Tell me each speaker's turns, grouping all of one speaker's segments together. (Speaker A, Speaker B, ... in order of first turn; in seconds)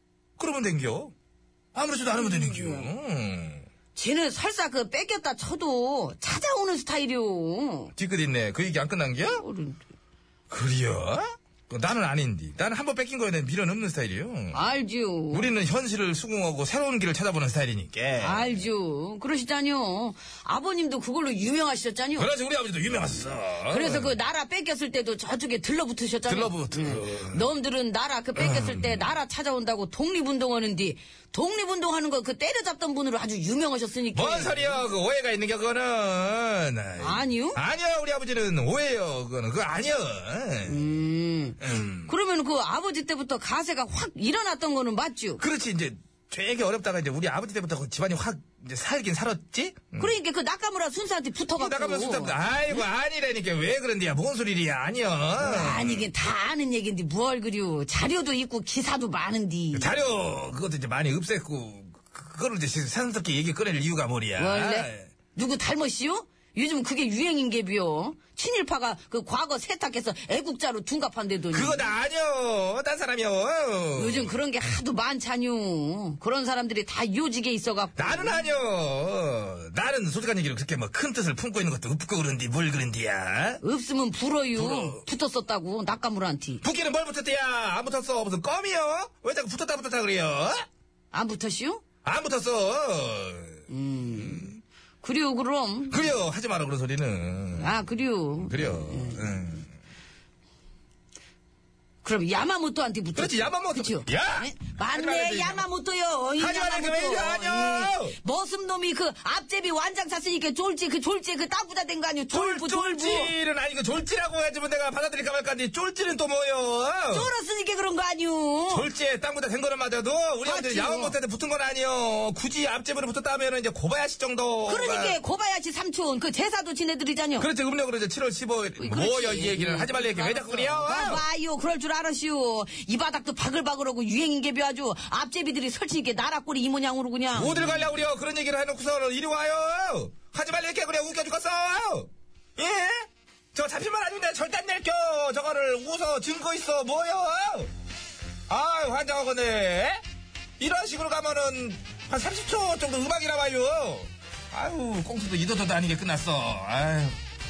Speaker A: 0.4-1.1, 1.7-3.6, 8.0-9.4, 10.5-14.6, 15.3-18.6, 22.2-24.2, 26.2-27.5, 28.4-29.0, 34.1-40.9, 41.6-42.1, 45.4-50.1, 51.5-56.1, 59.7-65.0, 71.5-74.4, 78.0-83.6, 84.5-85.0, 86.6-90.6, 92.0-93.6, 94.2-94.5, 95.9-97.8, 98.4-99.7, 103.1-105.7, 106.4-108.2, 112.3-117.3, 118.7-125.2, 127.4-131.2, 137.3-147.7, 148.5-150.0, 150.6-157.2
Speaker B: 2.1-2.9, 3.9-7.9, 9.2-9.8, 14.5-15.5, 18.2-22.3, 23.7-34.9, 37.0-37.6, 40.6-45.4, 50.0-52.8, 55.4-60.0, 64.4-71.9, 73.9-78.5, 83.6-86.6, 91.1-91.8, 93.7-96.1, 97.5-99.4, 102.0-113.3, 117.1-118.9, 120.4-121.2, 124.7-127.5, 128.8-137.9